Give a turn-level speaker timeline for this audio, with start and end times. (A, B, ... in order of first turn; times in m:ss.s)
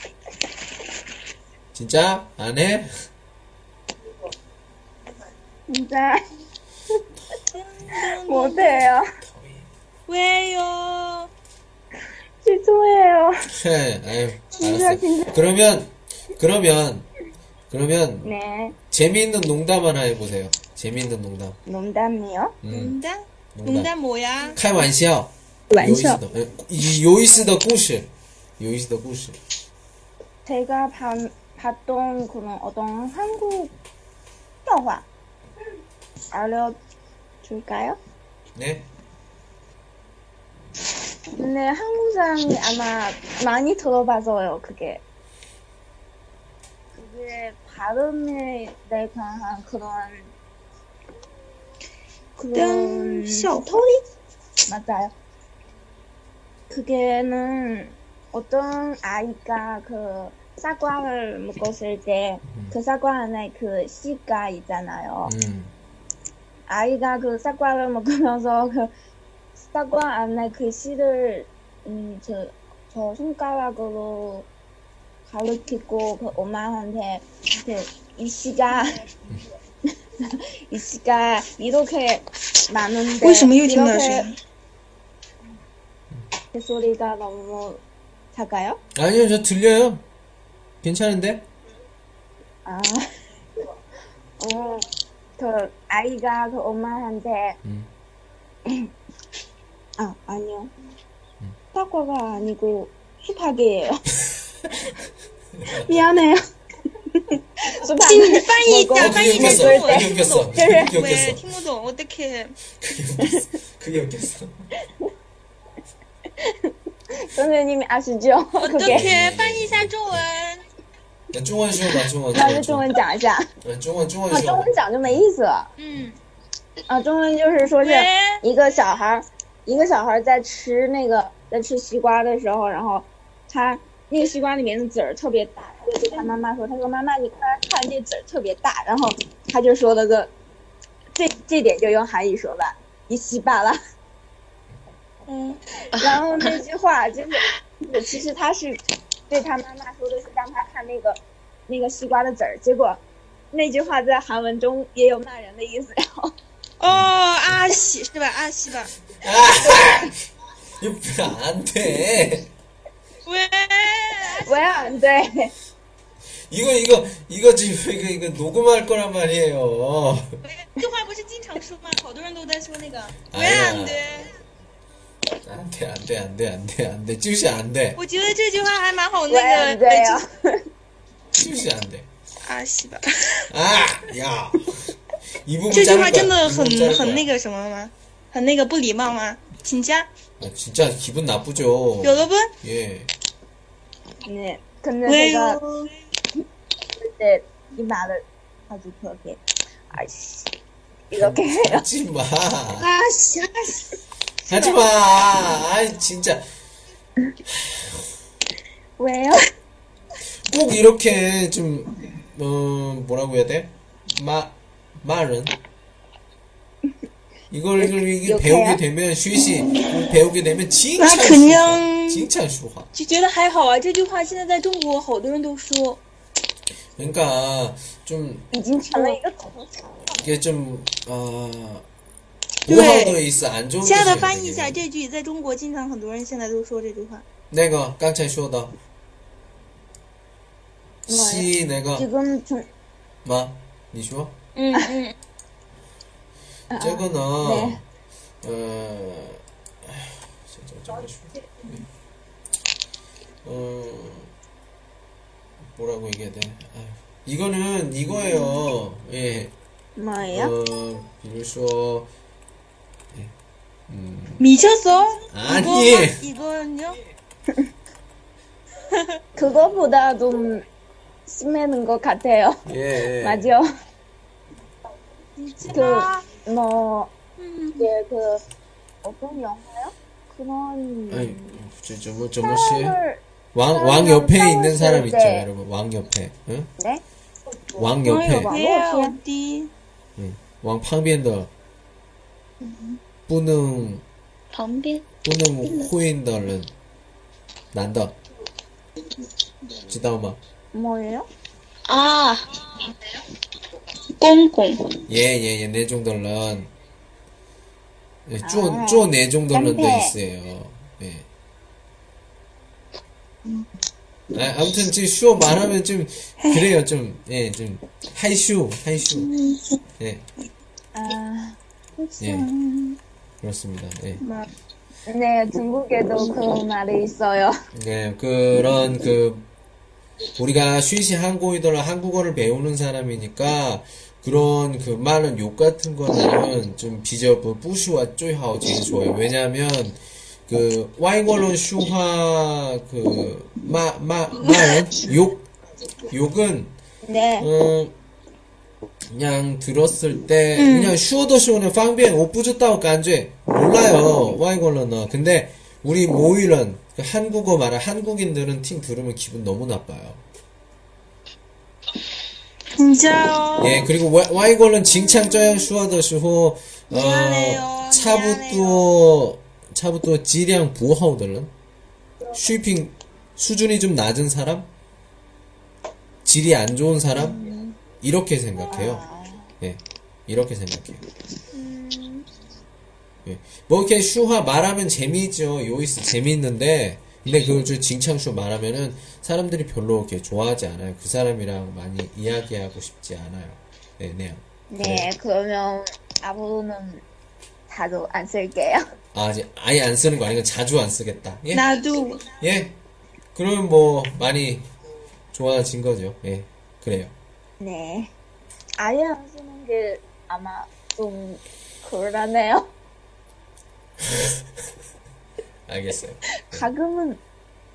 0:01.7-0:02.9 A
0:05.7-0:06.2 B
0:07.5-0:08.9 C
0:08.0-0:09.1 B
0:09.2-0:09.7 A
0:10.1-0:11.3 C
0:12.4-0:13.4 B
0:13.5-0:17.1 A
0:14.6-0:15.4 B
0:17.7-0:18.3 A
0:18.2-0:18.8 B
0:18.9-0:21.6 A
0:21.7-0:22.6 B
0:22.6-0:23.0 A
0:22.7-0:24.6 C
0:23.6-0:23.9 A
0:24.6-0:29.4 A
0:25.7-0:26.2 B
0:30.4-0:33.7 B
0:34.6-0:35.1 B
0:36.3-0:36.8 B
0:37.4-0:38.0 B
0:38.6-0:38.9 A
0:41.4-0:45.0 B
0:47.0-0:50.3 B
0:52.4-0:53.8 B
0:52.5-0:54.0 C
0:54.7-0:55.1 B
0:56.7-1:05.3 B
1:02.5-1:02.8 A
1:05.2-1:05.7 A
1:06.7-1:08.9 B
1:09.7-1:14.5 B
1:15.3-1:19.0 B
1:20.2-1:24.3 B
1:23.2-1:24.4 C
1:26.5-1:27.8 B
1:28.3-1:28.8 B
1:29.0-1:30.0 A
1:30.8-1:31.5 A
1:32.6-1:33.1 B
1:34.4-1:34.9 B
1:35.4-1:37.6 B
1:37.6-1:37.9 A
1:40.0-1:40.7 B
1:41.7-1:44.0 B
1:45.6-1:46.0 A
1:45.7-1:46.4 B
1:47.6-1:50.9 B
1:48.0-1:52.6 C
1:49.0-1:51.4 A
1:52.8-1:54.6 A
1:56.4-1:59.0 B
1:58.6-2:00.6 C
1:58.9-2:00.2 A
2:01.3-2:02.9 A
2:02.3-2:03.5 B
2:03.6-2:05.2 A
2:04.3-2:05.7 B
2:05.8-2:06.2 C
2:06.9-2:20.3 B
2:07.8-2:08.4 C
2:21.2-2:23.8 B
2:25.3-2:25.6 C
2:25.9-2:33.0 B
2:33.5-2:36.3 B
2:36.8-2:38.9 C
2:36.9-2:37.1 A
2:39.1-2:40.2 A
2:40.8-2:42.5 A
2:43.3-2:45.0 C
2:44.4-2:45.5 B
2:46.5-2:50.3 A
2:50.5-2:54.4 C
2:53.3-2:54.3 A
2:55.4-2:58.0 A
2:58.0-3:00.2 C
2:59.3-3:00.6 B
3:01.3-3:02.1 A
3:01.4-3:01.7 C
3:02.4-3:03.5 C
3:03.5-3:07.3 A
3:05.7-3:10.1 C
3:10.4-3:13.1 A
3:12.0-3:12.5 C
3:14.2-3:15.6 B
3:15.1-3:15.9 C
3:17.0-3:19.4 B
3:19.9-3:20.5 B
3:21.1-3:21.8 B
3:21.2-3:22.9 A
3:22.8-3:23.9 C
3:24.5-3:26.4 A
3:27.5-3:28.0 A
3:29.0-3:29.4 B
3:30.5-3:35.6 A
3:37.5-3:42.9 A
3:37.8-3:38.8 B
3:41.0-3:42.3 C
3:42.9-3:46.0 C
3:47.0-3:48.5 A
3:48.5-3:49.6 B
3:50.2-3:51.9 A
3:52.6-3:54.8 A
3:52.7-3:53.2 C
3:53.8-3:57.2 C
3:57.5-3:58.7 A
4:01.1-4:02.1 A
4:01.1-4:02.7 B
4:03.2-4:04.4 A
4:04.6-4:05.1 C
4:06.7-4:07.8 B
4:06.8-4:07.8 A
4:08.4-4:11.9 A
4:13.4-4:14.3 A
4:15.8-4:19.5 A
4:20.0-4:20.5 B
4:20.2-4:22.1 A
4:23.9-4:24.5 A
4:24.4-4:27.0 C
4:25.3-4:26.2 A
4:29.4-4:30.6 B
4:31.3-4:32.6 B
4:32.7-4:33.5 A
4:33.2-4:33.6 B
4:35.4-4:36.2 C
4:35.7-4:37.1 B
4:37.4-4:37.9 C
4:37.8-4:38.4 B
4:39.0-4:41.5 B
4:41.1-4:43.0 A
4:42.4-4:45.5 B
4:43.5-4:46.7 A
4:47.8-4:48.5 A
4:48.0-4:49.7 C
4:48.1-4:49.2 B
4:50.2-4:51.5 A
4:53.3-4:54.0 A
4:54.5-4:55.1 D
4:55.2-4:56.7 A
4:57.7-4:58.2 A
4:59.9-5:00.4 A
5:00.7-5:01.3 B
5:01.9-5:02.6 D
5:04.1-5:05.0 D
5:05.1-5:06.7 A
5:08.3-5:11.3 A
5:08.4-5:10.1 B
5:14.3-5:19.3 A
5:16.4-5:16.7 C
5:20.9-5:22.9 B
5:22.2-5:22.5 A
5:23.4-5:24.2 A
5:24.2-5:24.5 C
5:25.1-5:27.6 B
5:27.7-5:29.5 A
5:30.4-5:45.5 A
5:46.1-5:46.8 A
5:47.0-5:47.5 B
5:47.4-5:48.0 A
5:49.1-6:00.2 A
5:50.6-5:51.0 C
6:02.8-6:03.9 C
6:03.6-6:11.5 A
6:05.2-6:05.6 C
6:06.9-6:08.9 C
6:12.3-6:14.7 A
6:16.2-6:17.4 A
6:17.2-6:17.8 B
6:18.0-6:19.0 A
6:18.7-6:19.5 B
6:19.6-6:21.0 A
6:21.5-6:22.3 C
6:23.2-6:35.1 A
6:34.7-6:37.0 B
6:37.7-6:38.8 B
6:39.1-6:41.7 A
6:41.5-6:42.2 C
6:42.4-6:42.8 A
6:43.4-6:44.7 A
6:45.3-6:47.1 A
6:47.6-6:48.1 B
6:48.8-6:52.7 B
6:54.0-6:54.4 A
6:55.7-6:56.7 A
6:56.5-6:57.2 B